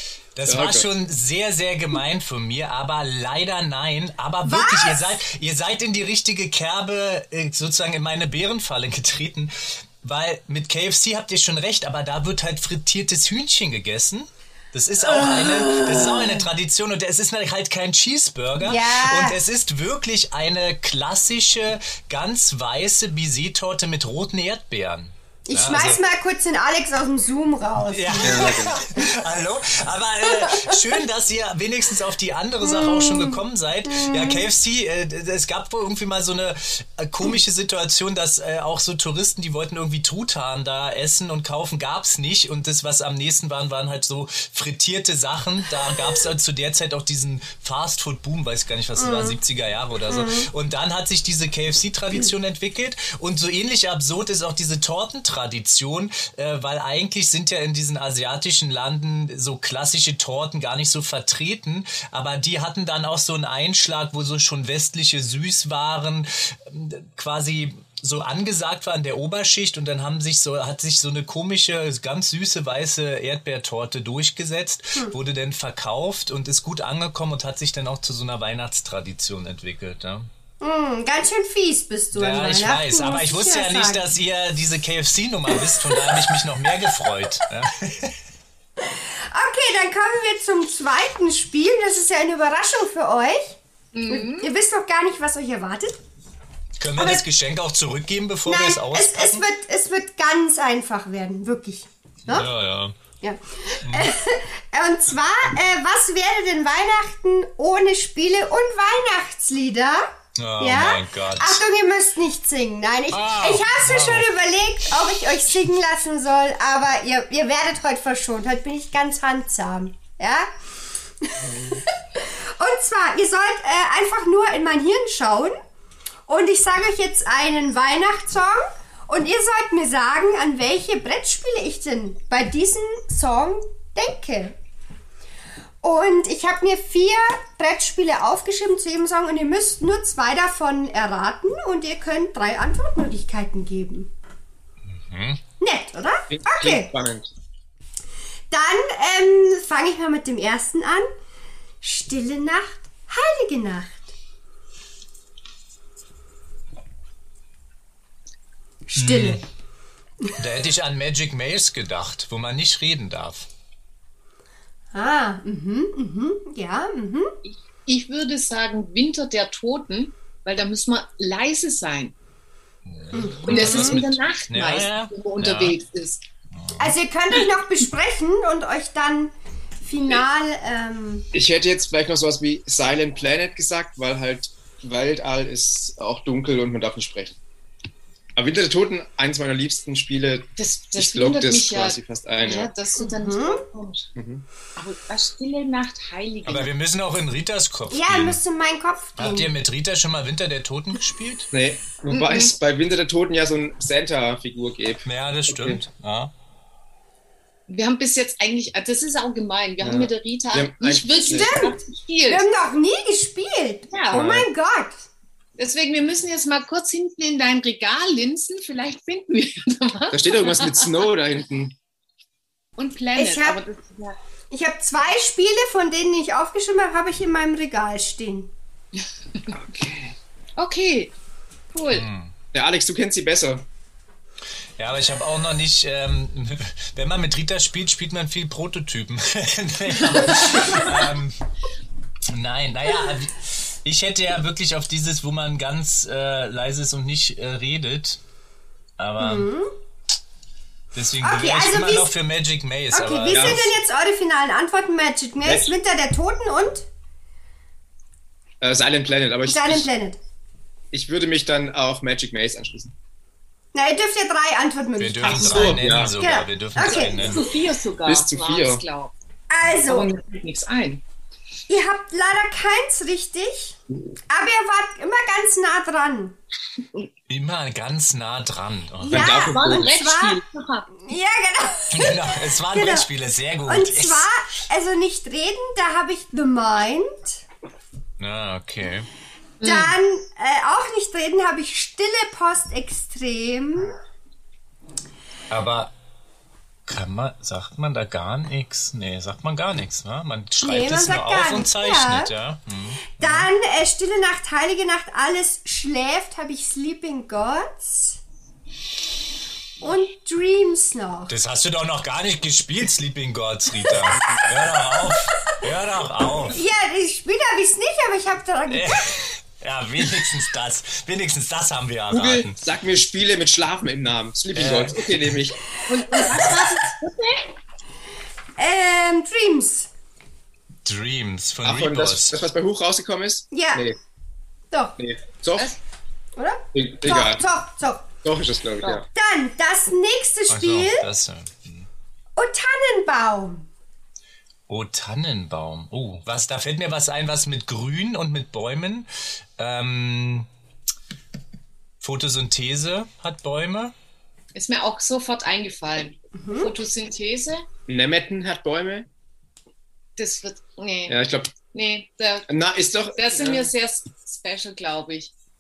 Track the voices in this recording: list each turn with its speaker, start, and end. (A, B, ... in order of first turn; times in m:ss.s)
0:00.4-0:26.0 A
0:00.5-0:00.9 B
0:04.4-0:05.2 C
0:15.0-0:16.5 C
0:18.6-0:19.4 C
0:25.5-0:28.8 C
0:27.9-1:20.3 A
0:28.2-0:28.8 B
0:30.3-0:30.8 C
0:32.6-0:34.5 C
0:49.0-0:49.4 C
0:50.1-0:50.5 C
1:20.6-1:24.0 C
1:22.1-1:28.2 A
1:25.5-1:26.3 C
1:28.8-1:36.0 C
1:33.9-1:34.5 D
1:36.8-1:39.4 A
1:37.0-1:37.2 C
1:38.5-1:42.5 C
1:42.3-1:43.0 A
1:43.2-2:00.5 C
1:43.8-1:44.1 A
1:50.4-1:51.6 A
1:53.1-1:54.3 A
2:01.2-2:05.6 C
2:01.4-2:01.8 B
2:06.3-2:14.6 C
2:15.8-2:24.1 C
2:24.9-2:25.4 A
2:25.6-2:26.9 C
2:26.3-2:27.3 B
2:28.5-2:31.1 C
2:31.8-2:34.1 C
2:38.9-2:39.4 C
2:39.0-2:39.4 A
2:40.4-2:43.5 A
2:44.9-2:47.4 C
2:47.4-2:52.2 D
2:52.9-2:55.8 A
2:53.1-2:54.0 C
2:53.5-2:56.2 D
2:56.5-2:57.0 A
2:56.8-3:01.3 C
3:01.3-3:07.4 B
3:08.4-3:12.7 B
3:10.6-3:14.1 D
3:13.0-3:13.6 C
3:14.2-3:14.4 B
3:14.8-3:16.7 D
3:16.4-3:18.4 A
3:17.9-3:19.5 C
3:19.2-3:21.5 A
3:21.5-3:25.8 B
3:22.1-3:22.5 D
3:25.0-3:26.3 A
3:27.7-3:32.5 D
3:29.8-3:31.7 B
3:31.3-3:35.0 C
3:33.9-3:34.3 D
3:34.1-3:34.5 B
3:35.6-3:41.0 D
3:40.1-3:41.7 B
3:42.8-3:44.2 D
3:43.2-3:43.6 C
3:44.5-3:48.5 C
3:49.5-3:50.2 B
3:50.6-3:51.1 D
3:51.7-3:52.1 D
3:51.9-3:52.3 A
3:52.5-3:53.7 B
3:54.8-4:01.4 A
4:00.3-4:00.8 D
4:02.3-4:08.2 A
4:09.0-4:09.5 A
4:09.2-4:09.7 C
4:10.9-4:13.8 A
4:11.2-4:12.1 C
4:12.9-4:16.9 C
4:13.3-4:13.6 B
4:15.4-4:15.7 B
4:18.6-4:19.9 B
4:19.5-4:20.2 C
4:20.9-4:22.9 B
4:23.7-4:27.4 C
4:25.0-4:27.5 A
4:25.2-4:26.2 B
4:26.9-4:29.1 D
4:28.1-4:28.8 B
4:29.5-4:30.1 C
4:29.8-4:31.0 D
4:31.7-4:33.8 C
4:34.3-4:36.4 C
4:37.3-4:39.4 A
4:39.1-4:39.9 B
4:39.1-4:40.4 C
4:39.2-4:41.0 D
4:41.0-4:43.1 C
4:41.9-4:44.3 A
4:43.7-4:47.4 C
4:48.2-4:49.1 A
4:49.6-4:50.0 D
4:49.6-4:54.0 C
4:55.5-4:55.9 A
4:56.9-5:03.5 A
5:00.6-5:02.3 C
5:03.2-5:08.2 C
5:09.8-5:11.3 C
5:11.3-5:16.6 A
5:14.1-5:14.5 B
5:15.1-5:15.6 C
5:16.5-5:19.3 C
5:18.7-5:22.6 A
5:22.1-5:25.6 B
5:24.5-5:25.4 A
5:25.9-5:27.5 D
5:28.6-5:29.9 C
5:30.8-5:32.4 A
5:31.6-5:34.0 B
5:33.5-5:33.9 C
5:34.7-5:35.0 C
5:35.0-5:35.7 B
5:36.4-5:38.1 C
5:36.7-5:37.4 B
5:38.2-5:39.1 B
5:39.1-5:41.1 C
5:40.5-5:41.9 A
5:42.4-5:43.7 C
5:44.7-5:50.5 A
5:52.0-5:53.9 A
5:54.5-5:57.6 D
5:56.4-5:56.7 C
5:57.9-5:59.1 B
6:00.2-6:02.5 D
6:01.1-6:01.5 B
6:02.5-6:03.7 B
6:03.2-6:05.3 D